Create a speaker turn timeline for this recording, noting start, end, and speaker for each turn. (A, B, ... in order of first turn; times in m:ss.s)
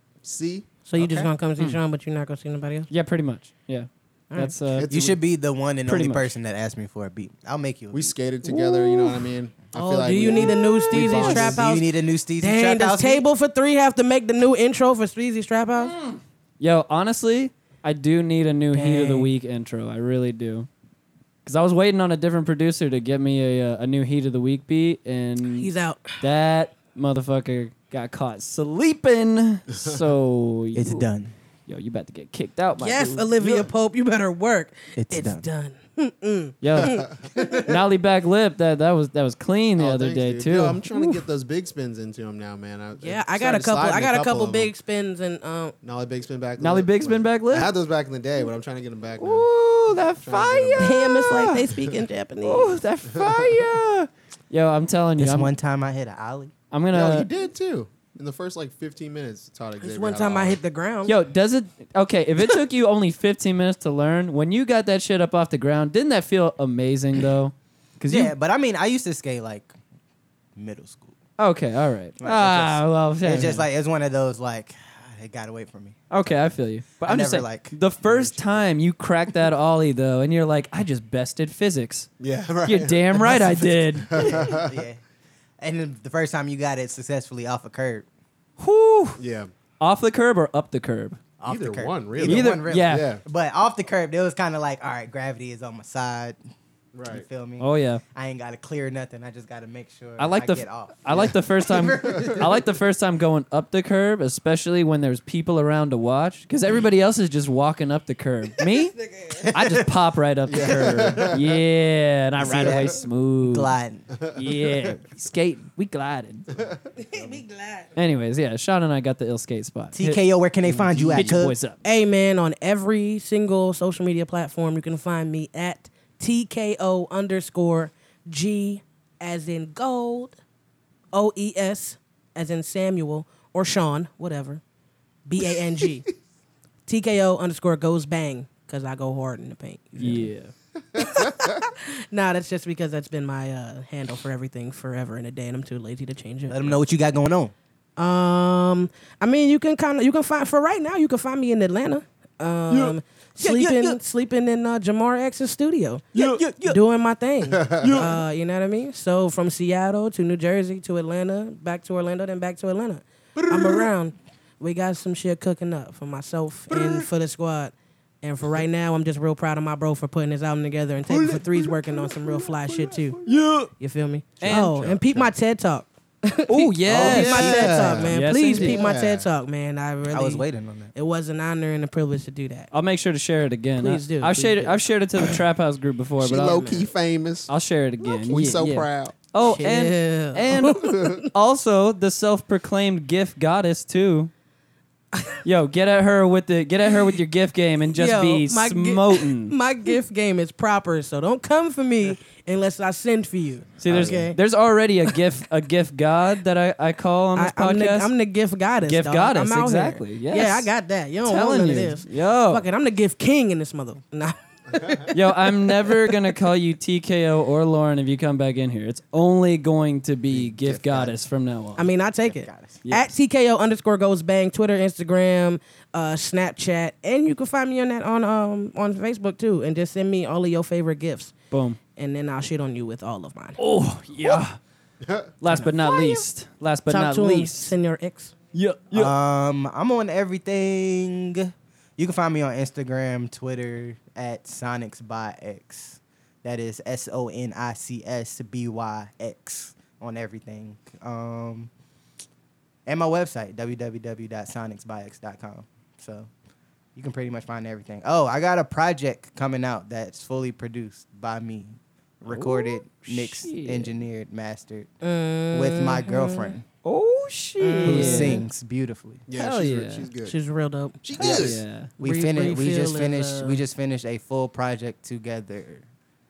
0:00.2-0:01.3 A
0:00.9-0:02.9 B
0:02.9-0:04.9 C
0:04.7-0:05.2 A
0:04.9-0:08.2 D
0:05.9-0:06.3 C
0:07.9-0:11.6 A
0:08.4-0:09.2 C
0:09.7-0:16.0 B
0:11.1-0:13.3 D
0:15.8-0:20.7 C
0:18.7-0:19.3 B
0:21.4-0:25.7 C
0:25.5-0:26.2 B
0:26.2-0:31.1 C
0:29.7-0:30.0 A
0:30.8-0:31.3 D
0:31.7-0:33.6 C
0:32.8-0:37.7 B
0:35.0-0:35.5 D
0:36.6-0:37.1 C
0:36.8-0:37.3 A
0:37.6-0:41.2 C
0:39.8-0:44.7 A
0:43.0-0:45.8 B
0:45.8-0:51.0 A
0:46.6-0:47.7 C
0:49.2-0:51.7 C
0:50.8-0:52.7 B
0:52.4-0:55.5 C
0:53.1-0:53.7 A
0:55.2-0:56.5 D
0:56.7-0:57.3 C
0:56.9-1:00.6 A
0:59.8-1:01.1 B
1:01.1-1:08.3 C
1:08.1-1:09.8 D
1:10.6-1:11.2 D
1:11.4-1:13.7 C
1:12.2-1:16.0 D
1:16.1-1:22.1 C
1:17.0-1:18.7 D
1:22.2-1:24.8 A
1:22.6-1:24.6 C
1:24.1-1:25.0 D
1:25.6-1:28.1 D
1:28.6-1:29.2 C
1:29.2-1:29.5 A
1:29.8-1:31.2 C
1:31.4-1:36.4 D
1:31.5-1:33.2 A
1:32.2-1:33.1 C
1:36.9-1:37.2 A
1:37.1-1:42.5 D
1:37.6-1:38.0 C
1:40.2-1:49.0 C
1:42.0-1:42.4 A
1:49.0-1:49.4 B
1:49.4-1:49.9 D
1:49.5-1:53.8 C
1:50.5-1:51.5 A
1:50.6-1:51.1 D
1:52.4-1:54.9 D
1:54.3-1:56.5 C
1:56.5-1:57.3 A
1:57.0-1:57.9 B
1:58.0-2:00.2 C
1:59.9-2:01.6 D
2:00.6-2:01.4 A
2:01.1-2:01.8 C
2:01.8-2:10.4 B
2:11.1-2:14.6 B
2:15.3-2:16.1 B
2:16.9-2:20.3 B
2:20.0-2:20.5 C
2:21.0-2:26.8 B
2:21.0-2:21.6 A
2:26.5-2:27.5 D
2:28.0-2:53.2 B
2:32.7-2:34.0 D
2:36.2-2:36.8 D
2:37.5-2:38.0 A
2:37.8-2:38.1 D
2:53.2-2:53.7 C
2:53.7-3:02.7 B
2:54.4-2:55.3 A
2:54.4-2:54.8 C
2:56.5-2:58.8 C
2:56.9-2:58.0 D
2:56.9-2:59.3 A
3:00.1-3:00.9 D
3:02.7-3:06.6 C
3:03.8-3:05.4 B
3:06.2-3:07.5 A
3:06.3-3:06.9 B
3:07.5-3:14.3 C
3:08.2-3:09.2 A
3:09.4-3:11.3 B
3:10.9-3:11.2 A
3:15.4-3:19.6 C
3:18.0-3:24.4 B
3:23.8-3:28.1 C
3:27.4-3:35.1 B
3:28.8-3:30.7 C
3:31.2-3:32.6 C
3:35.1-3:41.9 C
3:40.6-3:41.2 D
3:41.8-3:51.4 B
3:42.2-3:42.8 D
3:42.8-3:43.1 C
3:51.5-3:51.8 C
3:52.0-3:53.6 B
3:53.6-3:54.6 C
3:55.0-3:55.3 A
3:55.4-3:57.7 C
3:55.5-3:56.2 B
3:56.9-3:58.3 B
3:58.5-3:59.2 C
3:58.9-4:11.7 D
4:12.9-4:16.3 D
4:17.0-4:24.9 D
4:22.3-4:24.0 C
4:25.0-4:26.6 B
4:25.5-4:26.7 D
4:26.8-4:28.4 C
4:27.6-4:28.4 B
4:27.8-4:29.2 D
4:29.3-4:30.4 A
4:29.3-4:30.1 C
4:30.2-4:31.0 B
4:31.0-4:31.6 A
4:31.2-4:35.9 D
4:31.2-4:31.9 C
4:32.0-4:33.6 B